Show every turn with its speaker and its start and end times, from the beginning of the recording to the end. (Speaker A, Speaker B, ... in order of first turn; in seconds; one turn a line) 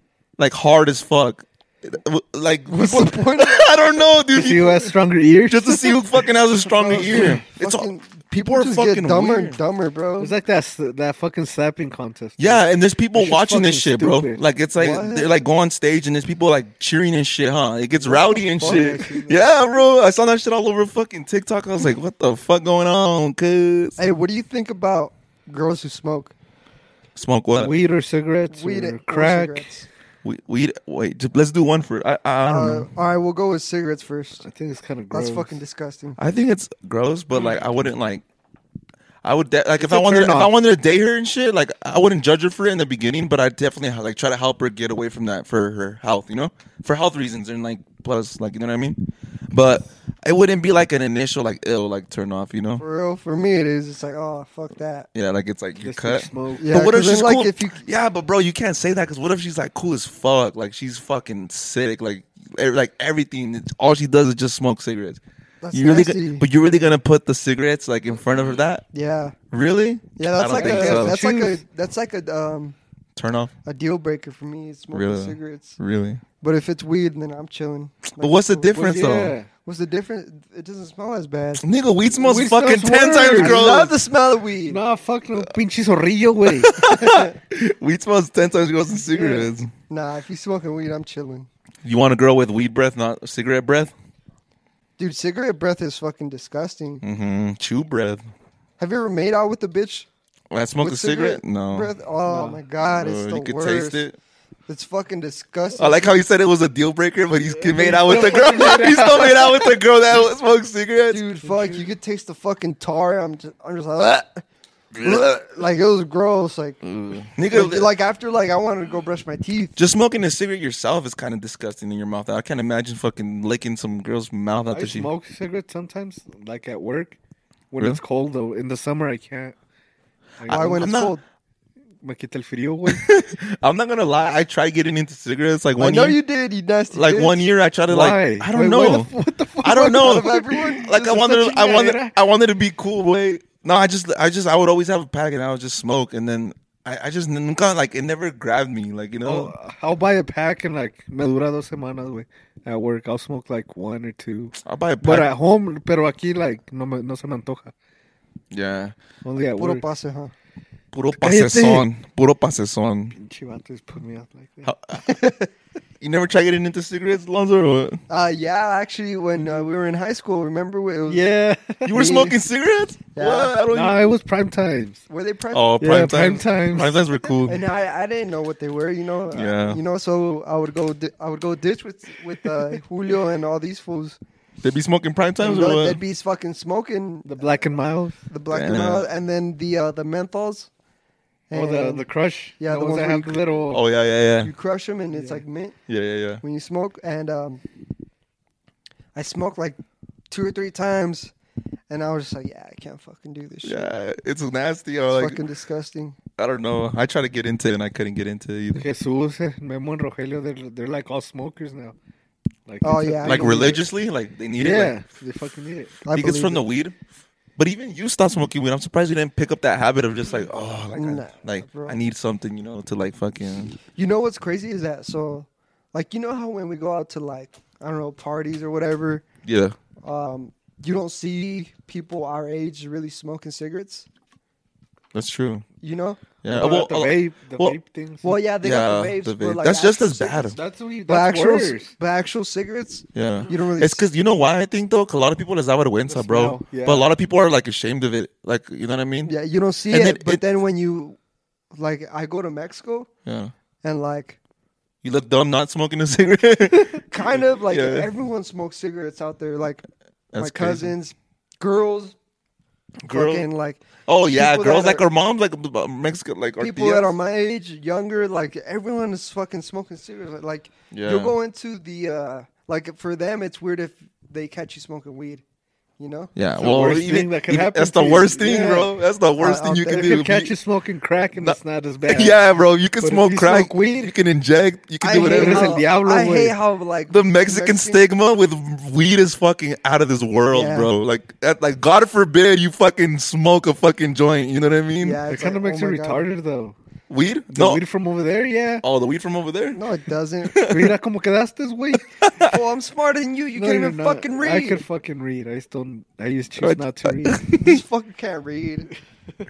Speaker A: 0.4-4.9
Speaker B: 2.7-3.7
Speaker C: 4.3-6.1
Speaker A: 5.5-9.6
Speaker B: 6.7-10.3
Speaker C: 6.9-7.4
Speaker C: 10.2-12.6
Speaker A: 12.4-24.0
Speaker C: 13.1-14.4
Speaker B: 14.8-15.3
Speaker C: 18.0-19.4
Speaker B: 18.3-19.2
Speaker B: 24.0-26.3
Speaker A: 27.1-27.7
Speaker C: 27.6-29.7
Speaker B: 28.5-29.9
Speaker A: 30.2-32.9
Speaker B: 32.5-34.5
Speaker C: 34.4-35.6
Speaker B: 35.1-36.2
Speaker A: 36.2-38.2
Speaker A: 39.2-52.8
Speaker C: 39.8-40.5
Speaker B: 52.8-55.1
Speaker A: 55.1-65.2
Speaker C: 55.8-56.8
Speaker B: 56.6-57.8
Speaker B: 65.6-66.5
Speaker A: 65.7-68.8
Speaker B: 68.9-69.3
Speaker A: 69.5-71.2
Speaker B: 70.2-72.8
Speaker C: 70.5-71.6
Speaker A: 73.2-73.5
Speaker B: 73.6-75.8
Speaker A: 74.9-76.2
Speaker B: 76.4-79.1
Speaker A: 78.2-79.3
Speaker C: 78.7-79.5
Speaker B: 79.6-81.6
Speaker A: 81.6-83.9
Speaker C: 82.2-83.8
Speaker B: 83.4-84.8
Speaker C: 84.7-86.8
Speaker A: 86.5-89.7
Speaker B: 86.9-87.3
Speaker B: 89.1-91.5
Speaker A: 91.8-93.9
Speaker B: 95.0-97.0
Speaker A: 97.0-98.2
Speaker B: 98.8-100.1
Speaker A: 100.5-101.9
Speaker B: 100.8-104.0
Speaker C: 102.2-102.6
Speaker A: 102.9-104.2
Speaker B: 104.7-106.1
Speaker A: 105.8-111.2
Speaker C: 107.6-109.8
Speaker B: 111.1-116.8
Speaker C: 111.4-111.8
Speaker A: 116.8-117.9
Speaker B: 117.5-119.8
Speaker A: 119.8-125.1
Speaker C: 124.7-127.2
Speaker C: 127.7-129.5
Speaker C: 130.4-130.9
Speaker A: 130.5-131.1
Speaker B: 130.5-131.2
Speaker C: 132.0-133.1
Speaker A: 132.9-136.2
Speaker B: 135.8-137.4
Speaker A: 136.9-139.1
Speaker C: 137.9-142.1
Speaker A: 139.6-149.5
Speaker B: 139.9-141.3
Speaker C: 149.2-157.7
Speaker A: 154.6-155.3
Speaker A: 158.5-158.9
Speaker C: 159.2-159.8
Speaker B: 159.6-160.3
Speaker A: 160.9-163.1
Speaker C: 161.1-161.8
Speaker C: 163.1-164.7
Speaker A: 164.6-165.2
Speaker B: 165.0-165.5
Speaker A: 166.0-168.0
Speaker B: 168.1-171.2
Speaker C: 171.1-172.2
Speaker A: 171.8-174.0
Speaker B: 171.9-172.3
Speaker B: 173.1-173.6
Speaker C: 173.7-175.0
Speaker B: 175.1-175.7
Speaker A: 175.5-177.6
Speaker C: 175.8-177.0
Speaker B: 177.4-184.2
Speaker A: 179.3-179.8
Speaker A: 184.6-186.0
Speaker B: 185.4-187.5
Speaker C: 187.3-188.2
Speaker B: 188.3-190.7
Speaker A: 188.5-189.1
Speaker B: 191.5-192.1
Speaker C: 191.5-193.8
Speaker B: 192.6-193.4
Speaker A: 193.7-194.5
Speaker B: 194.4-195.8
Speaker C: 195.1-195.4
Speaker A: 195.9-196.4
Speaker B: 196.4-197.6
Speaker B: 199.1-199.8
Speaker B: 200.3-201.3
Speaker B: 201.9-203.9
Speaker A: 203.6-205.4
Speaker B: 205.1-206.2
Speaker A: 206.4-208.8
Speaker C: 208.7-211.9
Speaker C: 212.7-213.8
Speaker B: 212.8-213.8
Speaker A: 213.2-214.9
Speaker C: 214.6-216.0
Speaker B: 216.0-216.6
Speaker A: 216.1-217.0
Speaker A: 217.6-223.8
Speaker B: 220.9-222.0
Speaker B: 223.9-229.2
Speaker A: 229.4-229.8
Speaker B: 230.0-234.1
Speaker A: 235.1-235.7
Speaker B: 235.8-236.2
Speaker A: 236.4-237.8
Speaker C: 236.5-238.4
Speaker B: 238.2-244.1
Speaker A: 238.6-240.6
Speaker C: 240.5-241.9
Speaker A: 243.1-249.3
Speaker C: 246.1-247.1
Speaker B: 249.2-251.2
Speaker A: 249.9-250.4
Speaker B: 251.7-253.1
Speaker A: 253.2-253.5
Speaker B: 253.8-254.4
Speaker A: 255.0-258.1
Speaker B: 257.1-259.8
Speaker A: 260.3-260.9
Speaker B: 260.4-262.1
Speaker A: 263.0-263.4
Speaker B: 263.1-265.0
Speaker A: 264.1-267.1
Speaker B: 266.6-275.4
Speaker A: 270.9-271.3
Speaker B: 276.0-276.3
Speaker A: 276.3-280.5
Speaker C: 276.6-278.9
Speaker B: 278.5-278.9
Speaker B: 279.4-280.1
Speaker C: 279.9-282.4
Speaker A: 281.4-285.7
Speaker C: 283.0-284.1
Speaker B: 285.0-288.0
Speaker C: 285.1-286.5
Speaker A: 287.1-295.2
Speaker B: 290.5-290.9
Speaker B: 295.0-296.2
Speaker C: 295.3-296.8
Speaker A: 297.1-297.8
Speaker C: 297.5-298.8
Speaker A: 298.8-299.8
Speaker B: 299.7-300.7
Speaker A: 300.4-300.9
Speaker C: 300.7-302.1
Speaker A: 302.0-302.6
Speaker B: 302.4-304.8
Speaker C: 303.5-307.5
Speaker A: 306.6-307.8
Speaker B: 307.6-308.9